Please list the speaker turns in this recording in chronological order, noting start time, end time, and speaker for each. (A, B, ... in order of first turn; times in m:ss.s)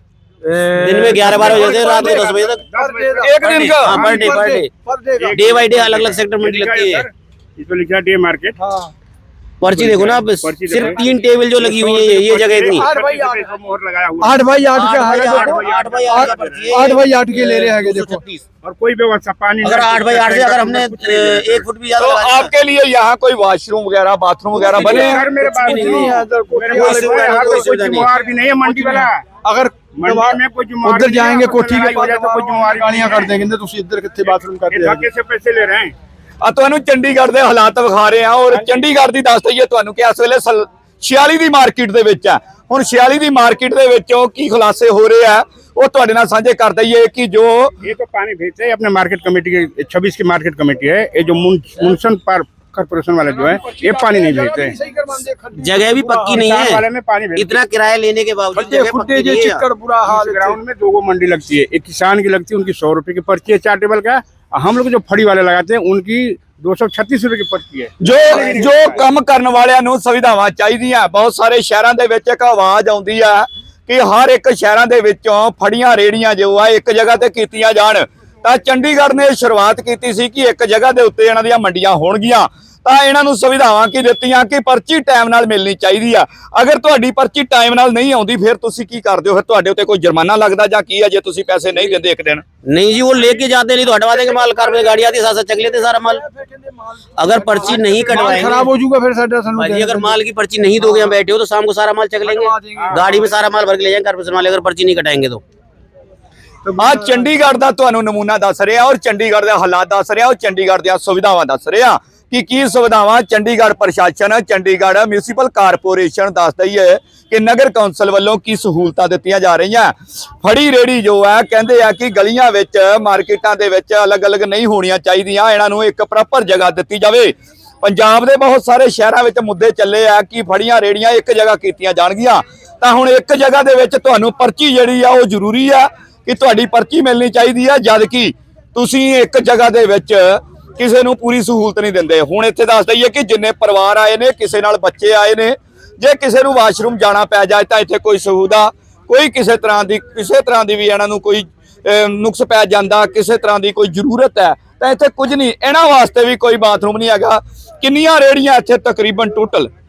0:00.5-0:05.6 A
0:00.6-0:02.6 B
0:01.3-0:04.5 C
0:03.2-0:04.0 D
0:03.4-0:04.7 B
0:05.2-0:08.6 C
0:05.4-0:07.0 B
0:08.6-0:08.9 A
0:09.6-0:12.9 B
0:09.7-0:14.4 C
0:12.8-0:13.5 A
0:14.2-0:18.2 A
0:14.7-0:18.4 B
0:15.0-0:16.8 C
0:18.6-0:21.6 C
0:19.6-0:22.5 B
0:22.0-0:25.2 D
0:24.5-0:35.0 A
0:24.6-0:29.2 C
0:25.4-0:28.1 B
0:30.0-0:33.3 C
0:34.7-0:35.9 C
0:36.4-0:47.7 D
0:38.5-0:38.8 C
0:47.8-0:54.8 C
0:53.4-0:56.5 A
0:55.6-0:56.8 B
0:56.2-0:57.6 C
0:57.3-0:59.6 B
0:58.5-1:00.6 A
1:00.0-1:09.0 C
1:08.0-1:32.4 D
1:32.6-1:36.2 B
1:36.1-1:40.2 A
1:37.2-1:38.7 B
1:39.6-1:45.4 B
1:40.8-1:41.1 A
1:42.2-1:43.2 A
1:46.6-1:47.4 A
1:46.8-2:39.7 D